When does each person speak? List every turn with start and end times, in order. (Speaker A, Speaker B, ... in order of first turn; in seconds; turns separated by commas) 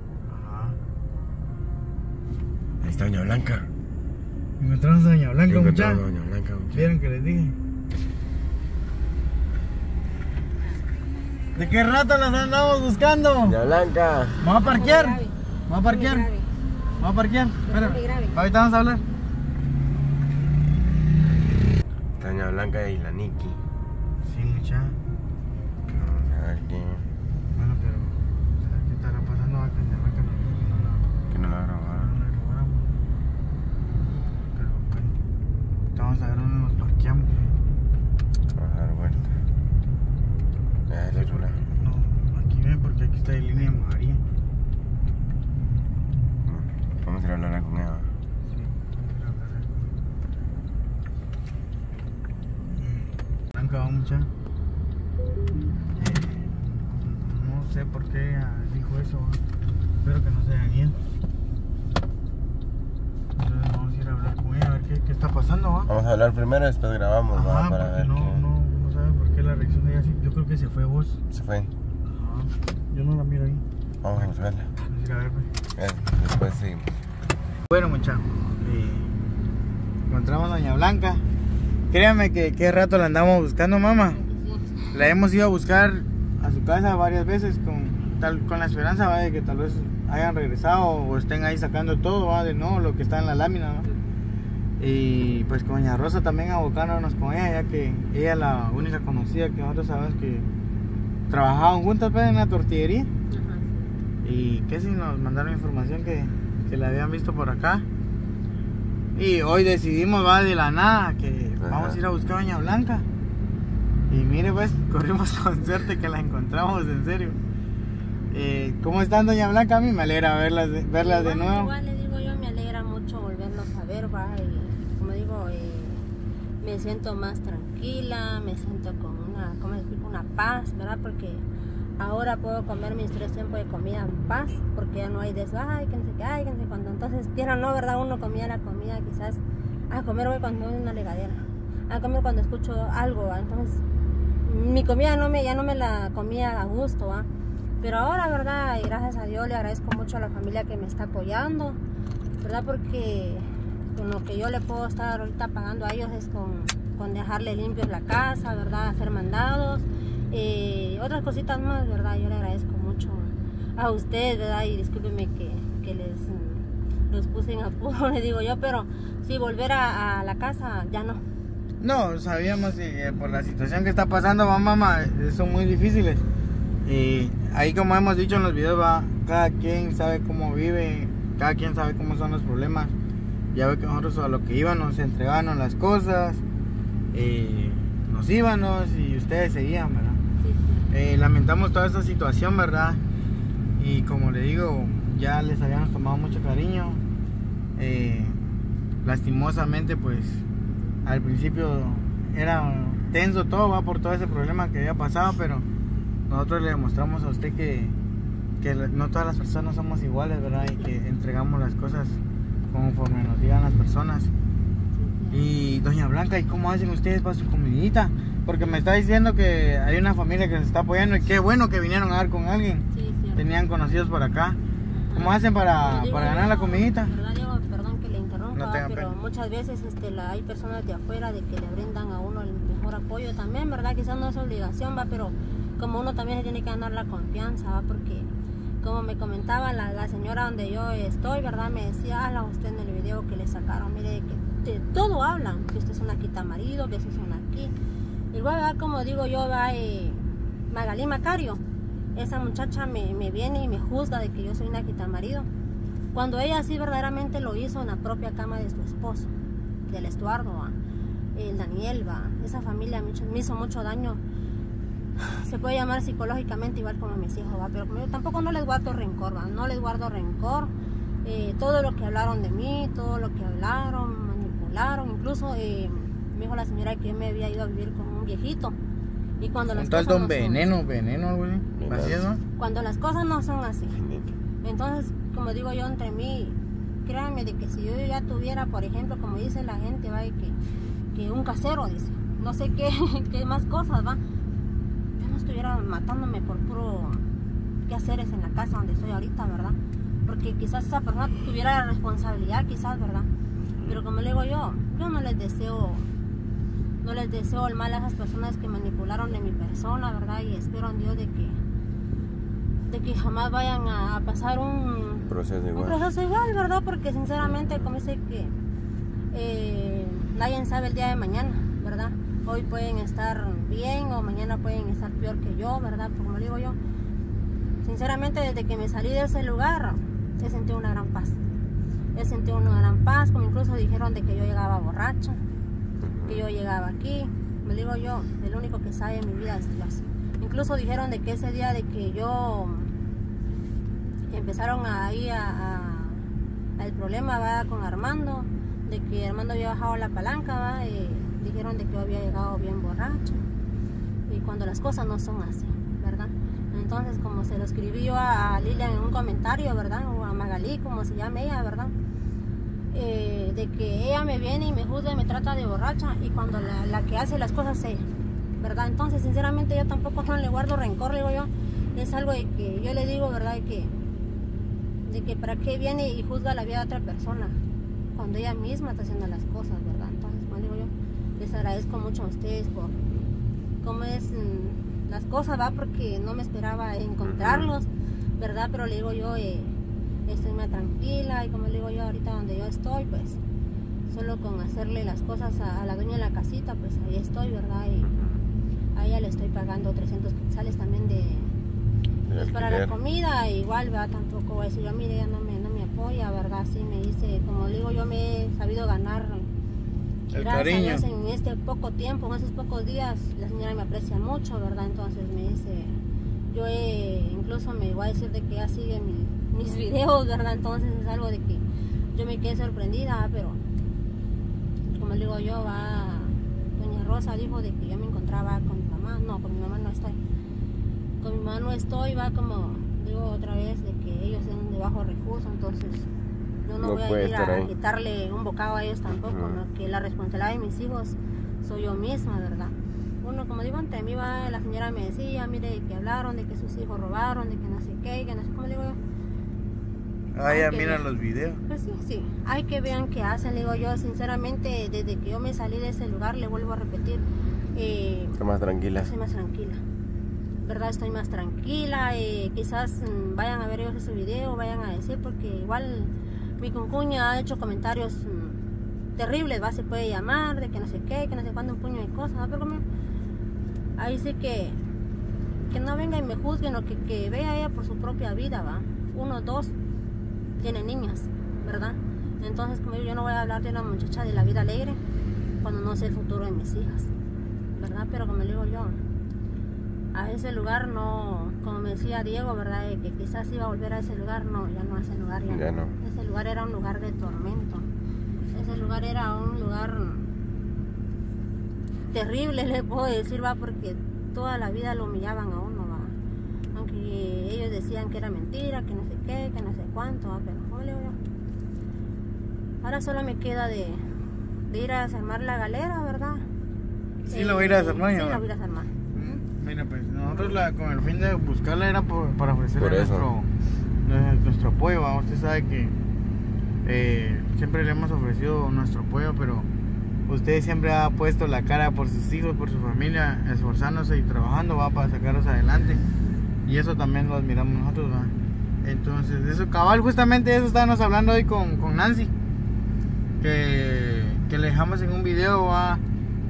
Speaker A: 0.2-0.8, Speaker B: 2.8-3.7, Speaker A: 4.6-6.0, Speaker B: 5.5-6.9, Speaker A: 6.7-7.6, Speaker A: 11.6-13.6, Speaker B: 13.4-14.4, Speaker A: 14.4-16.3, Speaker C: 14.6-16.5, Speaker A: 17.0-19.0, Speaker C: 17.7-18.4, Speaker B: 22.2-23.6, Speaker A: 24.2-25.0, Speaker B: 25.9-27.1, Speaker A: 27.6-31.1, Speaker B: 31.3-32.1, Speaker A: 31.9-32.9, Speaker A: 34.5-35.2, Speaker A: 36.0-37.4, Speaker B: 38.5-39.4, Speaker B: 40.9-41.6, Speaker A: 41.1-44.2, Speaker B: 46.5-48.1, Speaker A: 48.5-49.8, Speaker A: 52.7-54.3, Speaker A: 56.0-59.4, Speaker A: 60.0-61.0, Speaker A: 63.4-65.9, Speaker B: 65.9-68.4, Speaker A: 67.3-71.2, Speaker B: 71.3-71.7, Speaker A: 72.0-73.6, Speaker B: 74.0-74.7, Speaker A: 74.2-75.5, Speaker B: 75.8-77.0, Speaker A: 77.7-79.2, Speaker A: 80.1-81.2, Speaker A: 81.9-84.2, Speaker C: 84.2-84.9, Speaker A: 84.9-93.9, Speaker A: 94.8-100.5, Speaker A: 101.3-103.1, Speaker C: 103.3-104.0, Speaker A: 104.2-107.8, Speaker A: 109.2-113.1, Speaker B: 111.6-112.0, Speaker A: 114.1-117.4, Speaker A: 118.3-121.7, Speaker C: 121.0-126.1, Speaker C: 126.6-131.4, Speaker C: 132.0-143.8, Speaker C: 144.4-147.3, Speaker C: 147.8-151.8, Speaker C: 152.4-171.2, Speaker A: 171.8-176.2, Speaker A: 176.8-182.9, Speaker A: 183.5-186.4, Speaker A: 187.1-190.2, Speaker C: 190.4-190.9, Speaker A: 190.9-193.0, Speaker A: 193.8-197.0, Speaker A: 197.8-198.4, Speaker A: 199.0-200.4, Speaker A: 201.1-205.7, Speaker A: 206.3-208.0, Speaker A: 208.6-212.2, Speaker A: 212.7-214.3, Speaker C: 214.9-215.4, Speaker A: 215.3-222.8, Speaker C: 222.9-223.4, Speaker A: 223.4-224.6, Speaker C: 224.9-238.3, Speaker A: 225.1-227.1, Speaker A: 228.5-229.1, Speaker C: 238.8-247.7, Speaker C: 248.3-251.6, Speaker C: 252.2-255.5, Speaker C: 256.1-259.3, Speaker C: 259.9-260.8, Speaker C: 261.4-264.2, Speaker C: 265.2-270.7, Speaker C: 271.2-278.8, Speaker C: 279.4-280.7, Speaker A: 279.7-282.4, Speaker B: 281.8-282.2, Speaker C: 282.6-284.0, Speaker B: 283.9-284.3, Speaker C: 284.6-290.6, Speaker C: 291.1-294.2, Speaker C: 295.2-297.2, Speaker C: 297.9-303.3, Speaker C: 303.9-306.1, Speaker C: 307.0-311.6, Speaker C: 312.9-318.5, Speaker B: 315.3-316.1, Speaker B: 317.4-317.9, Speaker C: 319.3-326.8, Speaker C: 327.8-331.4, Speaker C: 332.1-335.4, Speaker B: 336.0-336.4, Speaker C: 336.3-342.9, Speaker C: 344.3-346.2, Speaker C: 346.8-353.4, Speaker C: 354.3-361.9, Speaker C: 362.9-368.1, Speaker C: 368.6-373.9, Speaker C: 375.1-377.6, Speaker C: 378.1-383.0, Speaker C: 383.8-387.9, Speaker B: 387.2-387.7, Speaker C: 388.4-389.8, Speaker C: 390.3-393.4, Speaker C: 394.1-398.1, Speaker B: 398.1-398.4, Speaker C: 398.9-401.5, Speaker B: 402.3-403.0, Speaker C: 402.4-409.5, Speaker A: 410.3-411.1, Speaker C: 410.3-416.0, Speaker C: 416.5-423.6, Speaker C: 424.9-430.2, Speaker C: 431.2-436.1, Speaker C: 436.6-449.0, Speaker B: 436.8-437.7, Speaker B: 439.1-439.6, Speaker A: 450.3-451.6, Speaker C: 450.5-451.0, Speaker C: 451.7-457.2, Speaker C: 457.8-458.4, Speaker B: 458.4-459.1, Speaker C: 459.0-459.8, Speaker C: 460.6-468.6, Speaker C: 469.2-472.8, Speaker C: 474.0-474.8, Speaker C: 475.7-479.7, Speaker C: 480.6-485.0, Speaker C: 485.6-487.1, Speaker C: 487.7-489.0, Speaker C: 490.1-497.9, Speaker B: 495.5-495.9, Speaker C: 498.5-500.3, Speaker C: 502.1-506.1, Speaker C: 506.7-511.2, Speaker C: 512.8-514.0, Speaker C: 514.7-516.5, Speaker A: 517.3-518.4, Speaker C: 517.3-519.0, Speaker A: 519.1-523.5, Speaker B: 522.8-523.3, Speaker A: 524.0-526.0, Speaker A: 526.9-529.7, Speaker A: 530.3-536.0, Speaker A: 536.7-542.3, Speaker A: 543.4-546.0